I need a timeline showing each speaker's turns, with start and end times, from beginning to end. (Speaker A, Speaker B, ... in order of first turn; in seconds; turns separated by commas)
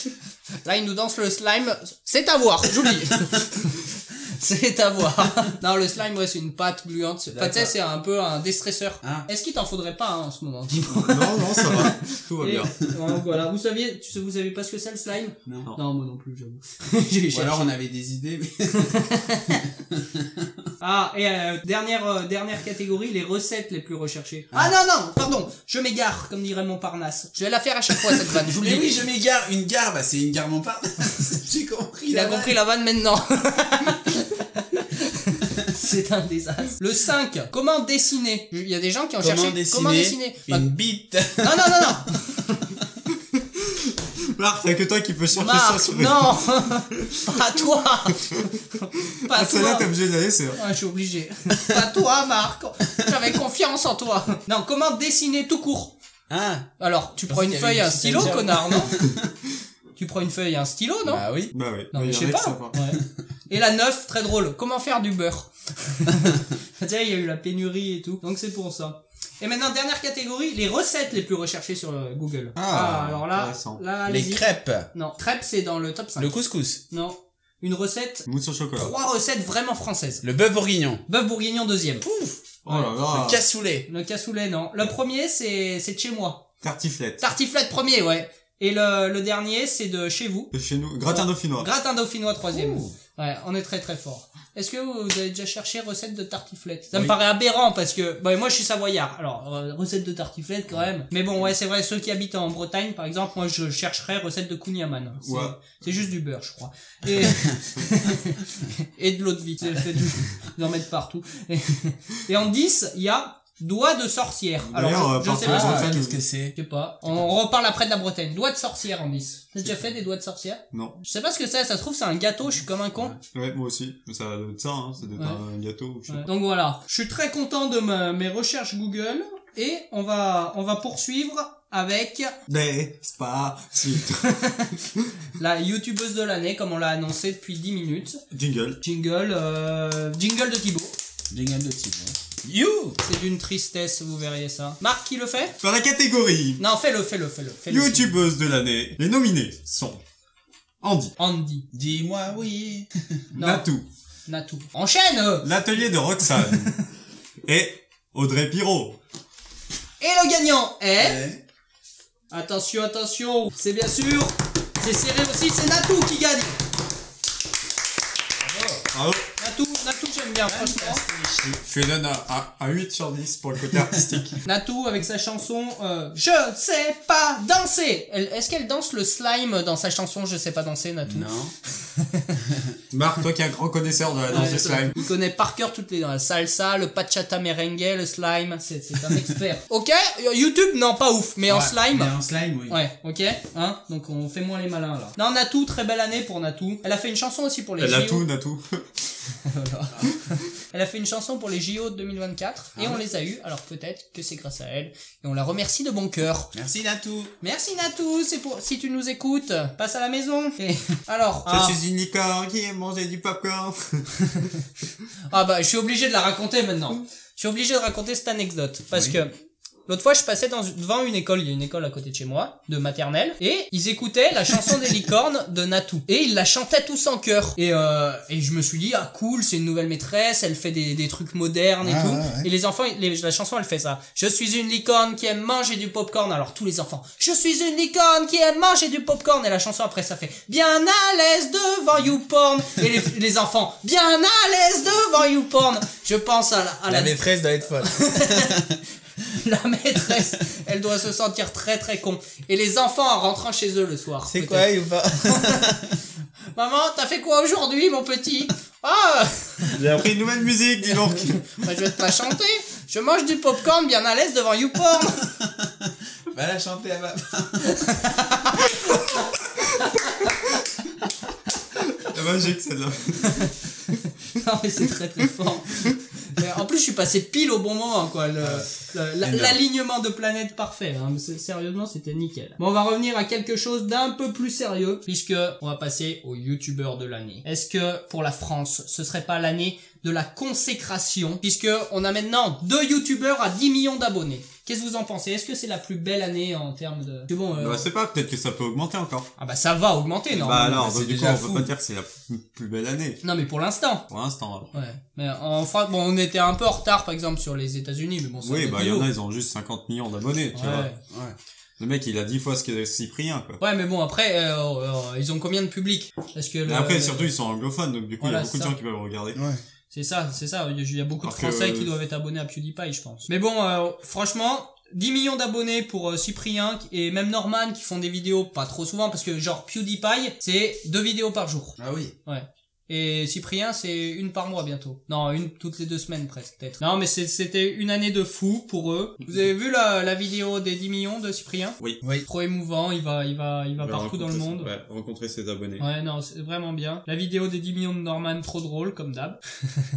Speaker A: 0.6-17.7, Speaker B: 7.3-7.7, Speaker B: 9.0-9.3, Speaker C: 11.0-12.9, Speaker B: 15.5-15.7, Speaker B: 17.3-19.0, Speaker A: 18.8-19.6, Speaker B: 19.5-20.6, Speaker A: 20.8-29.0, Speaker B: 28.1-32.6, Speaker A: 32.1-40.7, Speaker B: 39.2-42.1, Speaker A: 41.4-42.7, Speaker C: 43.7-47.4, Speaker A: 45.4-49.9, Speaker C: 49.3-50.6, Speaker A: 50.5-56.0, Speaker B: 56.3-56.7, Speaker A: 56.8-59.0, Speaker B: 57.3-59.2, Speaker A: 60.0-61.3, Speaker B: 61.1-61.5, Speaker C: 61.5-62.8, Speaker A: 61.9-76.3, Speaker C: 72.6-73.8, Speaker B: 74.1-74.9, Speaker B: 76.2-76.8, Speaker A: 76.9-80.2, Speaker C: 78.3-78.9, Speaker B: 80.2-81.0, Speaker A: 81.1-82.1, Speaker B: 82.1-82.3, Speaker C: 82.6-83.4, Speaker B: 83.1-83.9, Speaker A: 83.9-86.5, Speaker C: 86.6-87.3, Speaker A: 87.2-90.5, Speaker C: 90.5-91.7, Speaker A: 91.1-123.2, Speaker B: 92.5-93.0, Speaker C: 105.2-105.6, Speaker B: 107.2-107.6, Speaker C: 114.6-116.2, Speaker B: 115.4-116.5, Speaker C: 120.7-121.0, Speaker C: 123.3-126.3, Speaker A: 126.1-132.3, Speaker C: 132.5-134.4, Speaker A: 134.2-134.8, Speaker A: 135.4-138.2, Speaker C: 138.3-138.8, Speaker A: 138.8-141.0, Speaker B: 141.3-143.0, Speaker A: 143.0-145.5, Speaker C: 145.6-146.6, Speaker A: 146.6-148.1, Speaker C: 147.7-150.0, Speaker C: 150.8-151.2, Speaker A: 151.2-151.7, Speaker B: 151.7-153.2, Speaker C: 153.3-153.9, Speaker A: 153.3-153.7, Speaker A: 154.3-155.6, Speaker C: 155.4-156.8, Speaker C: 157.5-159.0, Speaker A: 160.0-161.2, Speaker B: 161.0-161.4, Speaker A: 162.3-166.6, Speaker B: 168.4-168.8, Speaker C: 168.9-169.3, Speaker A: 169.4-171.0, Speaker B: 170.5-171.6, Speaker C: 171.6-174.4, Speaker A: 174.4-181.3, Speaker B: 181.1-181.5, Speaker A: 181.8-182.3, Speaker B: 182.5-182.8, Speaker C: 182.9-185.0, Speaker A: 184.3-192.1, Speaker B: 191.5-192.8, Speaker A: 192.7-198.2, Speaker C: 197.8-198.9, Speaker A: 199.4-206.5, Speaker B: 206.5-207.3, Speaker A: 207.4-211.8, Speaker C: 211.5-214.3, Speaker A: 215.3-219.3, Speaker B: 218.9-219.2, Speaker A: 219.9-247.2, Speaker B: 231.8-232.5, Speaker B: 246.9-248.8, Speaker A: 247.8-248.6, Speaker A: 249.3-254.7, Speaker B: 254.2-256.0, Speaker A: 255.3-255.7, Speaker A: 256.5-259.8, Speaker C: 259.7-261.5, Speaker A: 261.5-265.3, Speaker B: 265.4-268.2, Speaker A: 267.8-268.6, Speaker C: 272.0-273.5, Speaker A: 274.3-297.9, Speaker B: 278.4-278.7, Speaker B: 279.2-279.6, Speaker C: 297.5-299.3, Speaker A: 299.4-301.6, Speaker C: 300.3-303.2, Speaker A: 303.2-304.1, Speaker C: 304.1-304.7, Speaker A: 304.7-309.1, Speaker C: 308.4-310.9, Speaker A: 310.5-311.0, Speaker B: 311.1-311.4, Speaker C: 311.8-313.6, Speaker A: 313.6-317.3, Speaker C: 316.7-319.4, Speaker A: 318.2-318.8, Speaker B: 319.4-319.6, Speaker A: 319.9-344.7, Speaker C: 321.2-321.9, Speaker B: 331.8-332.1, Speaker C: 343.8-345.9, Speaker A: 345.8-349.4